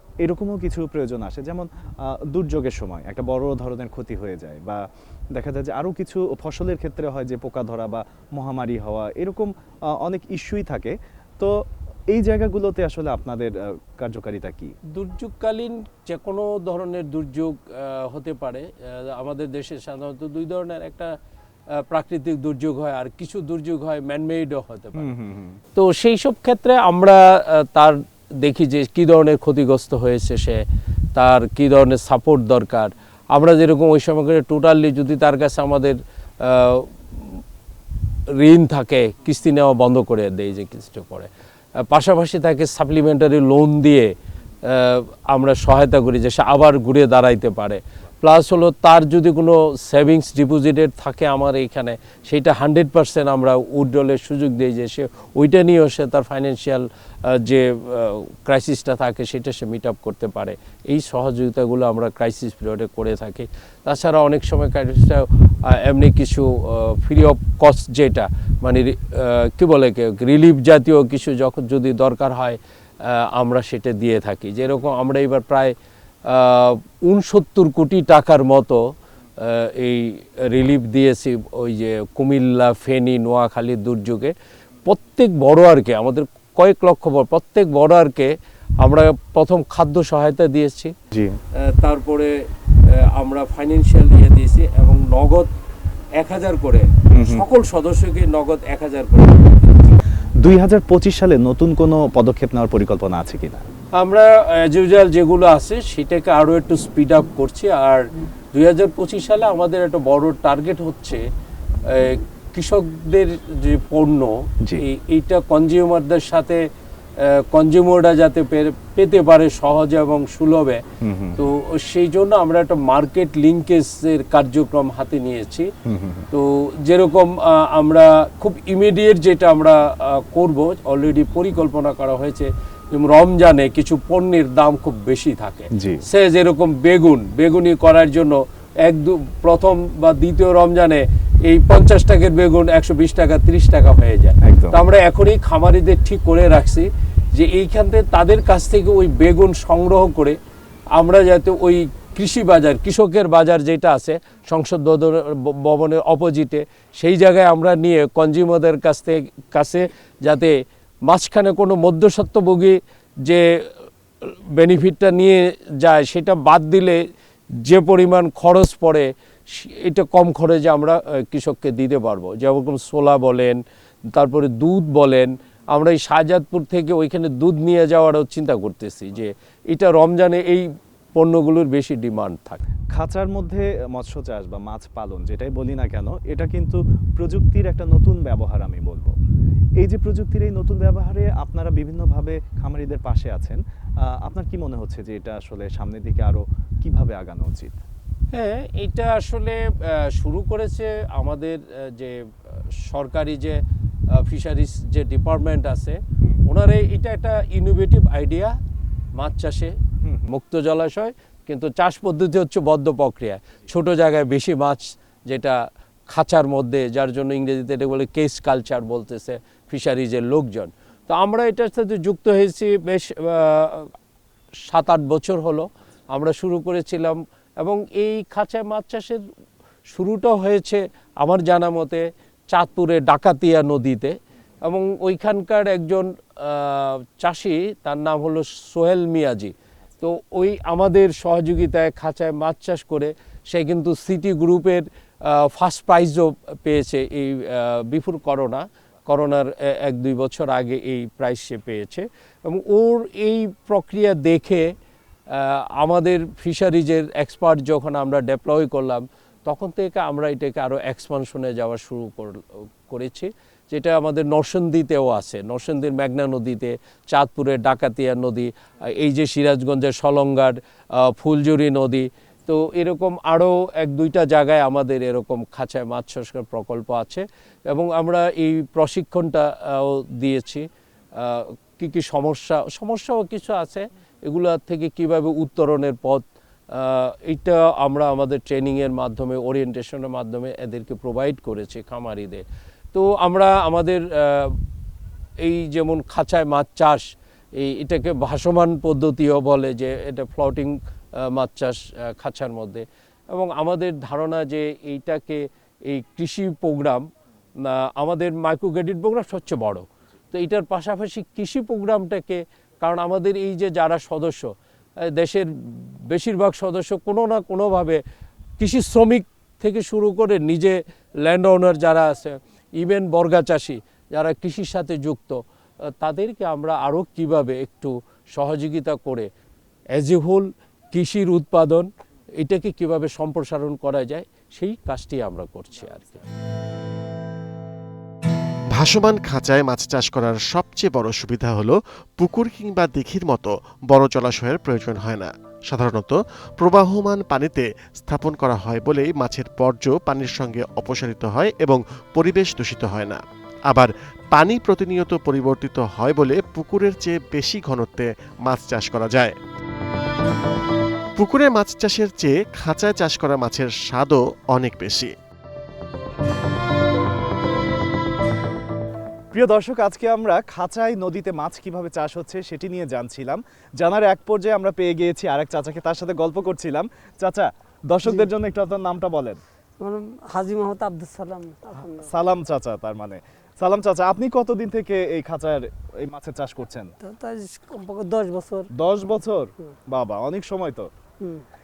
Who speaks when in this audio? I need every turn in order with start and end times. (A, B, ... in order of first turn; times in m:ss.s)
0:00.2-0:04.8 A
0:05.3-0:14.7 A
0:14.9-0:21.1 B
0:21.9-0:25.1 B
0:24.9-0:25.6 A
0:25.7-0:30.6 B
0:31.2-0:37.4 B
0:38.4-0:41.3 B
0:41.9-0:44.1 B
0:44.7-1:15.7 B
1:16.3-1:18.8 B
1:19.4-1:24.3 B
1:24.8-1:30.9 B
1:31.1-1:31.4 A
1:31.8-1:32.3 B
1:33.1-1:35.5 B
1:36.2-1:39.5 B
1:37.1-1:37.4 A
1:40.4-1:43.6 A
1:44.0-1:48.0 B
1:48.5-1:51.2 B
1:52.0-1:56.6 B
1:57.5-2:00.8 B
2:01.0-2:01.4 A
2:01.4-2:05.7 B
2:05.9-2:06.2 A
2:06.3-2:30.4 B
2:15.7-2:16.0 A
2:24.4-2:24.8 A
2:30.9-2:40.5 B
2:41.1-2:43.4 B
2:44.2-2:47.0 B
2:47.6-2:53.6 B
2:54.1-3:02.6 B
3:02.9-3:09.1 A
3:09.8-3:17.8 A
3:18.3-3:22.1 B
3:22.8-3:23.6 B
3:24.2-3:28.5 B
3:29.2-3:29.7 B
3:30.0-3:30.3 A
3:30.3-3:35.6 B
3:36.1-3:43.9 B
3:44.7-3:49.2 B
3:49.9-3:54.1 B
3:54.7-4:14.6 B
4:15.3-4:22.4 B
4:22.9-4:40.6 B
4:41.2-4:46.2 B
4:46.7-4:54.6 B
4:55.4-4:57.0 B
4:57.6-5:07.0 B
5:07.6-5:14.5 B
5:15.1-5:18.0 B
5:18.6-5:25.4 B
5:26.0-5:29.3 B
5:29.9-5:31.9 B
5:32.4-5:36.2 B
5:38.7-5:59.3 C
6:01.2-6:05.1 C
6:09.3-6:19.4 A
6:19.8-6:22.1 D
6:21.8-6:26.9 A
6:27.0-6:28.7 D
6:28.8-6:30.9 A